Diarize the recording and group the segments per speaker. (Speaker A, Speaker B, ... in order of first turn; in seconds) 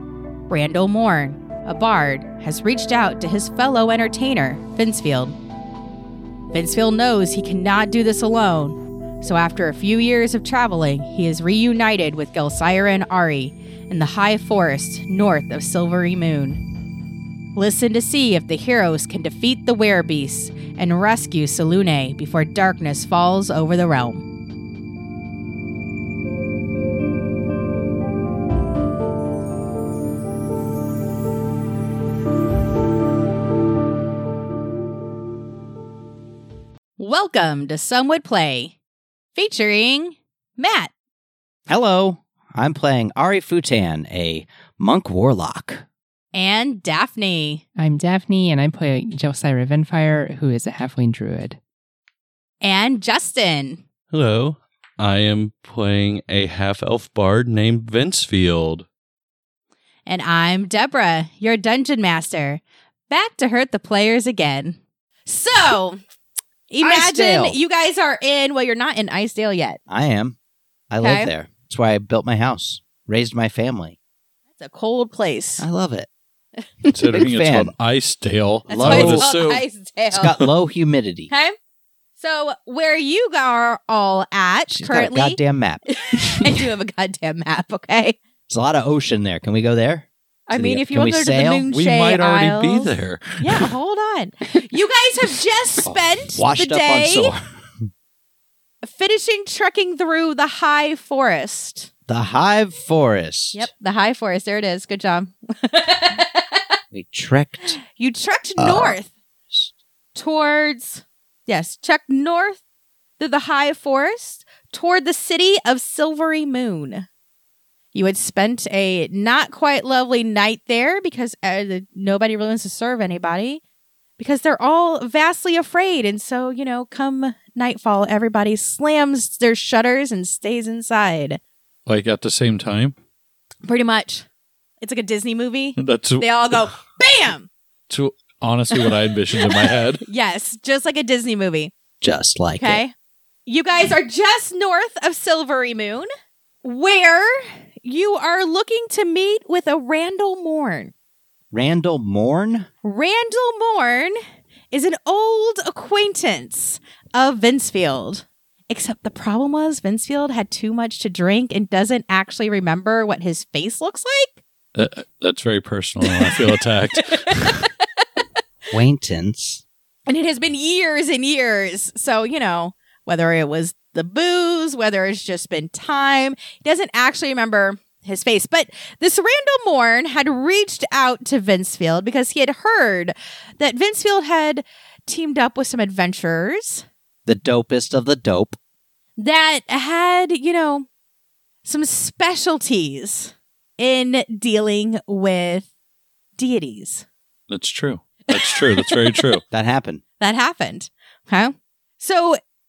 Speaker A: 0.5-5.3, 6.5-16.6, 17.6-24.2, 37.0-38.8, 39.3-40.9, 46.3-47.6, 52.6-53.8, 60.0-66.0, 66.7-69.8, 71.0-71.3, 74.6-75.7, 78.7-80.4, 81.3-81.5, 82.2-85.4, 85.9-88.2, 90.5-97.3, 98.8-101.9, 103.5-106.6, 107.9-109.1, 110.1-112.6, 113.2-117.1, 117.9-123.6, 124.2-131.4, 133.6-134.2, 134.8-137.5, 138.7-141.7, 142.6-142.9, 143.4-146.1, 146.6-150.9, 152.8-154.2, 154.7-164.4, 166.1-167.7, 170.1-186.8, 189.2-190.9, 191.6-195.7, 196.4-197.0, 198.3-199.0, 200.2-202.4
Speaker B: 41.7-45.8, 66.8-67.6, 69.9-70.3, 70.9-74.0, 75.6-76.1, 77.1-77.7, 78.7-79.3, 80.1-81.3, 84.7-85.8, 88.5-91.6, 95.8-97.9, 102.1-103.7, 106.9-107.8, 108.6-109.0, 142.0-142.8, 151.5-152.7, 168.7-169.6, 187.2-188.6, 199.5-200.0
Speaker C: 47.8-51.6
Speaker D: 54.1-58.9, 76.9-79.6, 91.7-93.7, 131.8-132.9, 135.8-136.7, 137.9-140.0, 164.7-167.7, 197.5-199.4